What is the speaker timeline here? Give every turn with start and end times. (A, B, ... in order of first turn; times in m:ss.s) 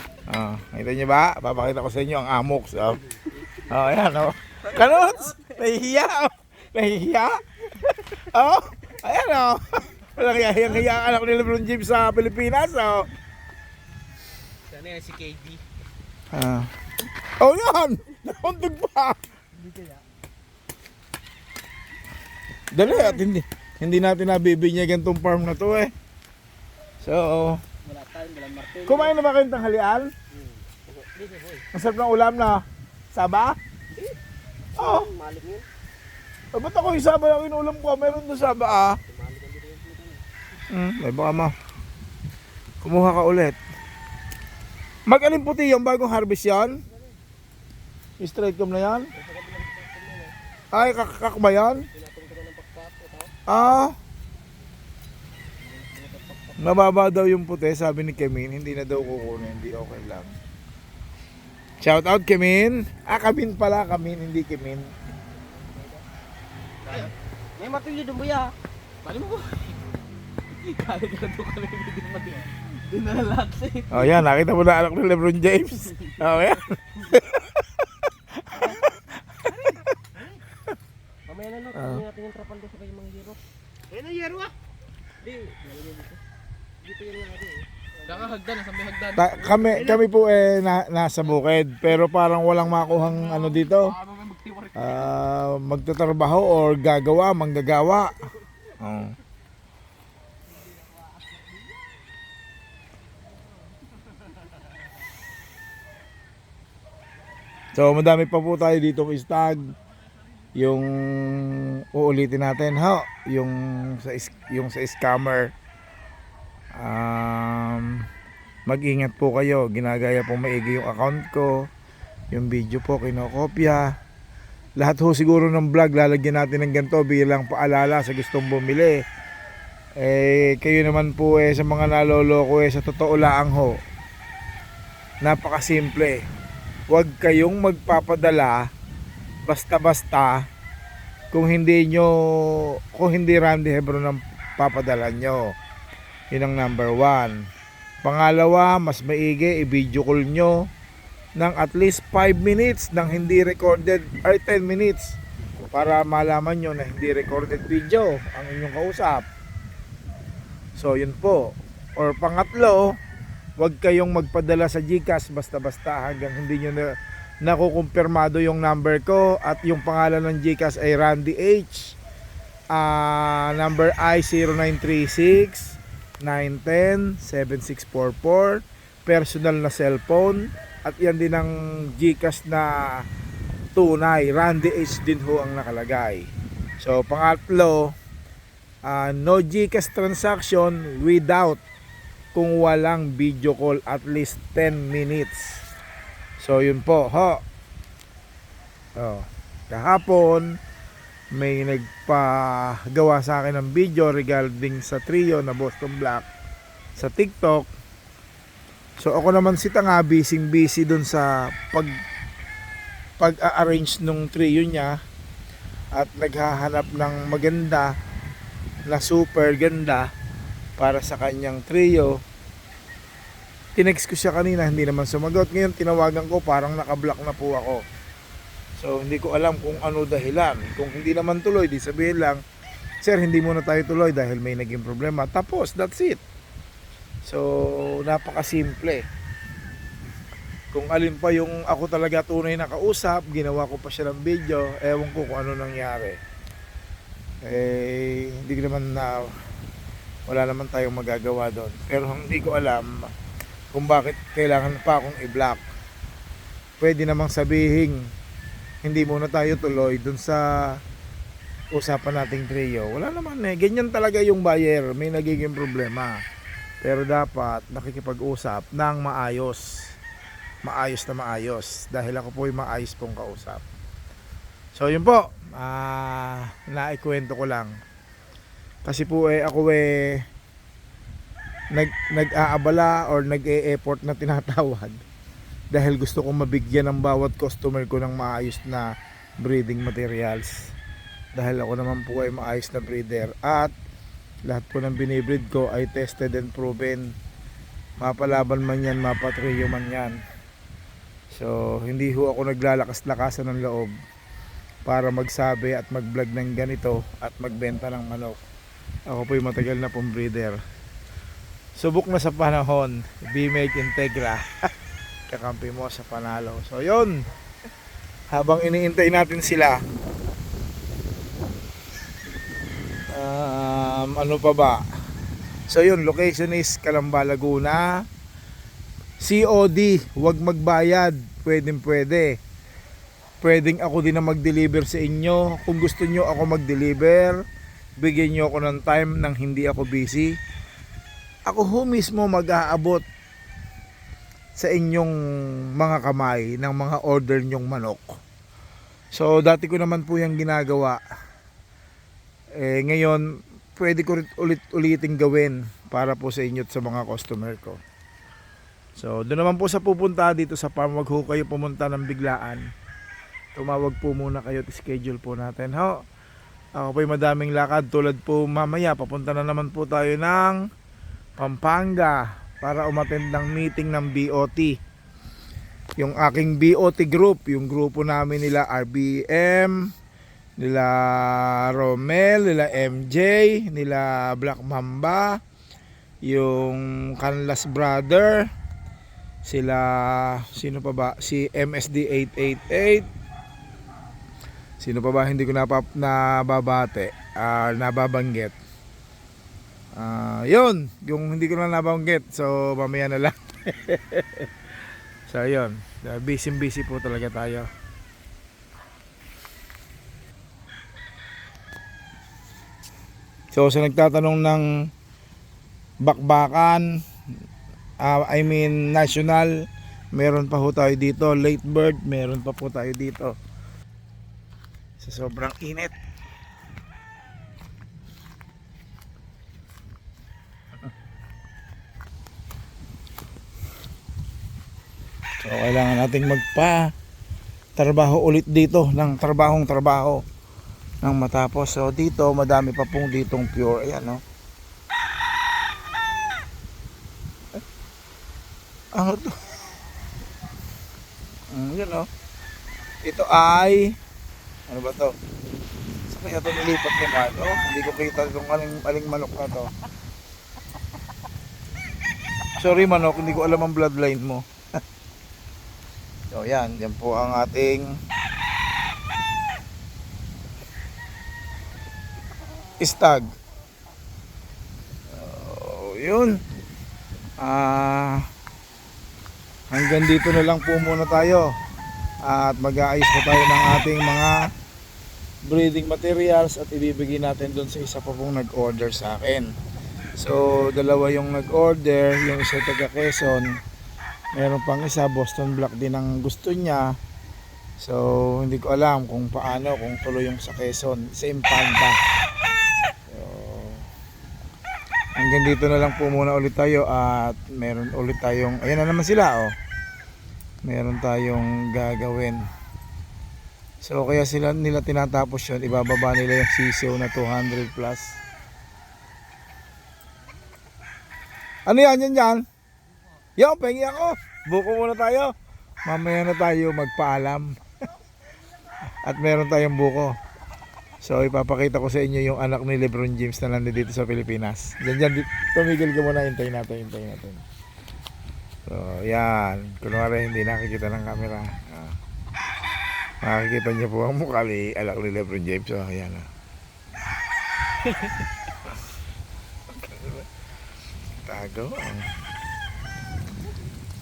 0:00.3-0:03.0 A
0:03.1-0:04.0 B
0:03.7-0:07.4 A
0:04.7-0:05.6 B
0:08.2-0:13.1 A
0:14.7-0:15.6 C
0:16.3-0:16.7 A
0:17.4-0:19.2 A
0:19.6-0:20.0 B
0:22.7-0:25.9 A
0:27.0-0:27.6 A
0:27.8-0:29.2 B
0:28.8-0:30.1 A
0:30.3-0:31.7 B
0:31.7-0:32.6 A
0:33.1-0:33.6 A
0:33.9-0:34.2 B
0:34.8-0:35.6 B
0:34.8-0:35.1 A
0:36.5-0:39.0 A
0:39.0-0:40.2 B
0:40.7-0:41.5 A
0:42.8-0:43.6 A
0:45.1-0:46.8 A
0:48.2-0:49.1 A
0:49.1-0:50.3 B
0:50.7-0:51.9 A
0:51.9-0:53.3 B
0:53.5-0:53.9 A
0:55.6-0:56.8 B
0:56.6-1:00.4 A
1:01.8-1:04.9 A
1:05.5-1:06.0 B
1:06.8-1:07.1 C
1:06.9-1:08.5 B
1:09.0-1:09.8 C
1:10.6-1:14.2 C
1:13.9-1:17.5 A
1:18.4-1:18.9 A
1:18.6-1:18.8 B
1:19.5-1:19.7 A
1:21.3-1:23.4 B
1:21.8-1:22.0 A
1:23.9-1:24.5 B
1:25.2-1:26.2 B
1:26.8-1:28.4 B
1:28.1-1:29.6 C
1:29.2-1:34.0 A
1:29.8-1:30.0 B
1:32.9-1:35.1 C
1:34.8-1:38.2 A
1:38.8-1:39.2 A
1:40.8-1:41.6 B
1:47.8-1:49.7 A
1:50.6-1:55.5 A
1:56.8-1:58.0 A
1:58.7-2:01.7 A
2:02.3-2:03.9 A
2:04.8-2:09.0 A
2:10.0-2:13.8 A
2:15.2-2:16.2 A
2:16.9-2:18.7 A
2:19.5-2:20.5 A
2:21.3-2:25.6 A
2:26.3-2:27.4 A
2:28.0-2:30.7 A
2:31.4-2:35.2 A
2:35.7-2:39.3 A
2:40.8-2:42.9 A
2:43.6-2:52.0 A
2:52.7-3:03.0 A
3:03.8-3:06.3 A
3:06.8-3:07.9 A
3:08.9-3:11.6 A
3:12.3-3:15.6 A
3:16.4-3:17.4 A
3:19.0-3:20.5 A
3:21.3-3:26.3 A
3:27.0-3:27.7 A
3:29.0-3:31.9 A
3:33.2-3:35.0 A
3:36.0-3:37.9 A
3:38.9-3:40.1 A
3:40.8-3:42.2 A
3:43.8-3:47.8 A
3:48.8-3:52.4 A
3:53.0-3:56.2 A
3:57.3-3:59.0 A
4:00.7-4:06.2 A
4:07.4-4:09.3 A
4:10.3-4:13.1 A
4:13.7-4:15.6 A
4:16.8-4:18.0 A
4:18.8-4:20.4 A
4:21.8-4:26.2 A
4:26.8-4:29.7 A
4:30.6-4:33.6 A
4:34.8-4:37.8 A
4:38.8-4:40.2 A
4:41.7-4:45.0 A
4:45.7-4:48.9 A
4:49.4-4:50.7 A
4:51.4-4:53.7 A
4:54.5-4:57.1 A
4:58.0-5:00.2 A
5:01.3-5:03.9 A
5:04.9-5:08.4 A
5:09.1-5:10.6 A
5:11.8-5:14.4 A
5:15.3-5:17.2 A
5:18.3-5:19.8 A
5:23.1-5:24.8 A
5:25.7-5:27.9 A
5:29.2-5:32.4 A
5:33.4-5:37.4 A
5:38.0-5:40.3 A
5:41.5-5:43.0 A
5:44.6-5:45.1 A
5:45.8-5:48.2 A
5:49.1-5:51.0 A
5:52.6-5:53.2 A
5:53.8-5:57.8 A
5:59.0-6:02.6 A
6:03.6-6:06.0 A
6:06.8-6:10.6 A
6:11.4-6:14.8 A
6:16.0-6:19.8 A
6:20.6-6:25.4 A
6:26.3-6:28.5 A
6:29.4-6:33.1 A
6:34.8-6:38.6 A
6:40.0-6:44.5 A
6:45.3-6:47.7 A
6:53.5-6:54.6 A
6:56.0-6:56.9 A
6:58.0-6:59.5 A
7:00.1-7:03.3 A
7:05.0-7:05.9 A
7:15.4-7:16.9 A
7:17.8-7:20.2 A
7:21.0-7:24.2 A
7:29.0-7:29.4 A
7:31.5-7:32.1 A
7:33.0-7:34.0 A
7:34.7-7:35.2 A
7:36.1-7:39.7 A
7:42.6-7:44.5 A
7:46.3-7:47.9 A
7:52.8-7:53.3 A
7:55.1-7:56.4 A
7:57.4-7:58.2 A
7:59.7-8:01.5 A
8:02.3-8:04.4 A
8:05.5-8:09.5 A
8:10.2-8:13.6 A
8:14.4-8:16.9 A
8:17.8-8:22.0 A
8:23.1-8:23.9 A
8:25.2-8:29.5 A
8:30.6-8:32.4 A
8:33.8-8:38.2 A
8:41.7-8:42.4 A
8:43.4-8:45.3 A
8:45.9-8:47.6 A
8:49.0-8:50.2 A
8:51.0-8:57.4 A
8:58.7-9:02.0 A
9:03.2-9:06.3 A
9:09.7-9:10.2 A
9:11.3-9:12.1 A